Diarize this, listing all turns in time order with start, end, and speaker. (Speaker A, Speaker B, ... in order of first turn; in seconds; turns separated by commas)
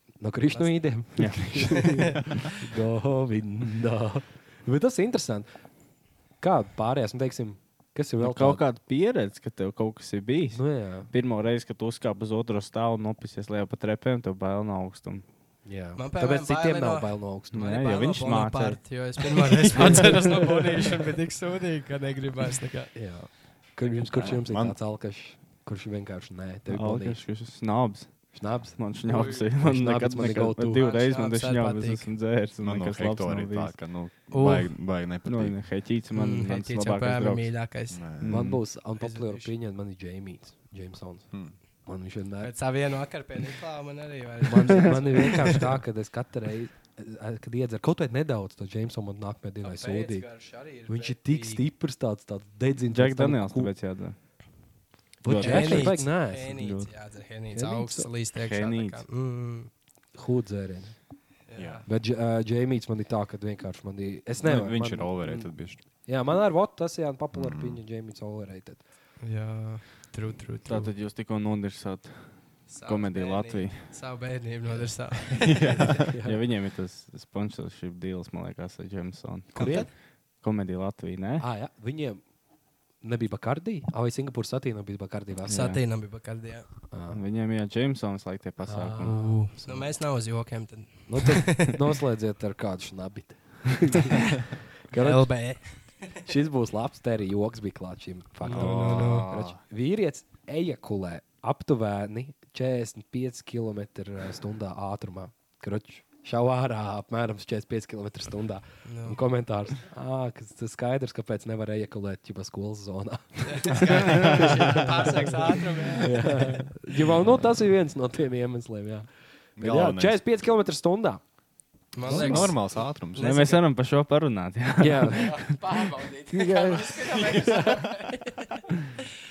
Speaker A: 0.2-5.5, Speaker B: 0.5-0.9, Speaker C: 1.2-1.9, Speaker B: 1.5-2.5, Speaker A: 6.4-8.6, Speaker C: 8.2-15.2, Speaker A: 10.5-11.1, Speaker A: 15.7-17.9, Speaker B: 16.0-22.9, Speaker C: 17.5-18.9, Speaker A: 19.8-20.8, Speaker C: 19.8-20.1, Speaker A: 22.9-27.2, Speaker D: 24.2-24.8, Speaker C: 26.7-33.8, Speaker A: 28.4-30.8, Speaker B: 29.1-29.5, Speaker B: 30.7-32.1, Speaker D: 32.6-35.5, Speaker B: 34.3-34.7, Speaker C: 35.2-37.5, Speaker B: 36.1-38.0, Speaker D: 37.9-38.5, Speaker C: 38.2-38.6, Speaker A: 38.3-41.3, Speaker B: 39.0-39.5, Speaker A: 41.9-42.5, Speaker B: 42.4-45.7, Speaker A: 44.5-50.3, Speaker B: 49.6-51.6, Speaker A: 50.9-53.7, Speaker C: 52.9-54.2, Speaker A: 55.2-56.6, Speaker C: 55.2-56.9, Speaker B: 55.4-59.7, Speaker A: 57.5-58.1, Speaker C: 58.4-59.0, Speaker A: 60.1-61.0, Speaker B: 61.5-61.9, Speaker D: 61.6-61.8, Speaker A: 61.9-68.8, Speaker D: 64.4-65.8, Speaker D: 67.3-67.8, Speaker B: 69.2-70.9, Speaker C: 70.7-73.8, Speaker B: 72.7-76.0, Speaker D: 75.3-76.1, Speaker A: 76.0-76.4, Speaker C: 76.2-79.9, Speaker A: 79.5-79.9, Speaker B: 79.5-79.9, Speaker C: 80.4-81.5, Speaker A: 81.4-82.2, Speaker A: 83.0-85.8, Speaker B: 85.5-86.7, Speaker C: 85.5-85.8, Speaker A: 86.9-87.2, Speaker C: 87.1-89.2, Speaker A: 88.6-89.8, Speaker B: 89.1-91.8, Speaker A: 91.1-94.3, Speaker A: 94.9-95.5, Speaker B: 94.9-96.1, Speaker A: 96.2-121.2, Speaker B: 98.5-99.3, Speaker D: 98.5-99.6, Speaker B: 108.8-109.2, Speaker B: 113.4-116.7, Speaker D: 119.6-120.2, Speaker B: 121.9-123.7, Speaker A: 122.0-122.6, Speaker D: 122.1-123.3, Speaker C: 123.2-125.4, Speaker A: 124.8-125.4, Speaker B: 125.1-129.1, Speaker A: 126.3-127.8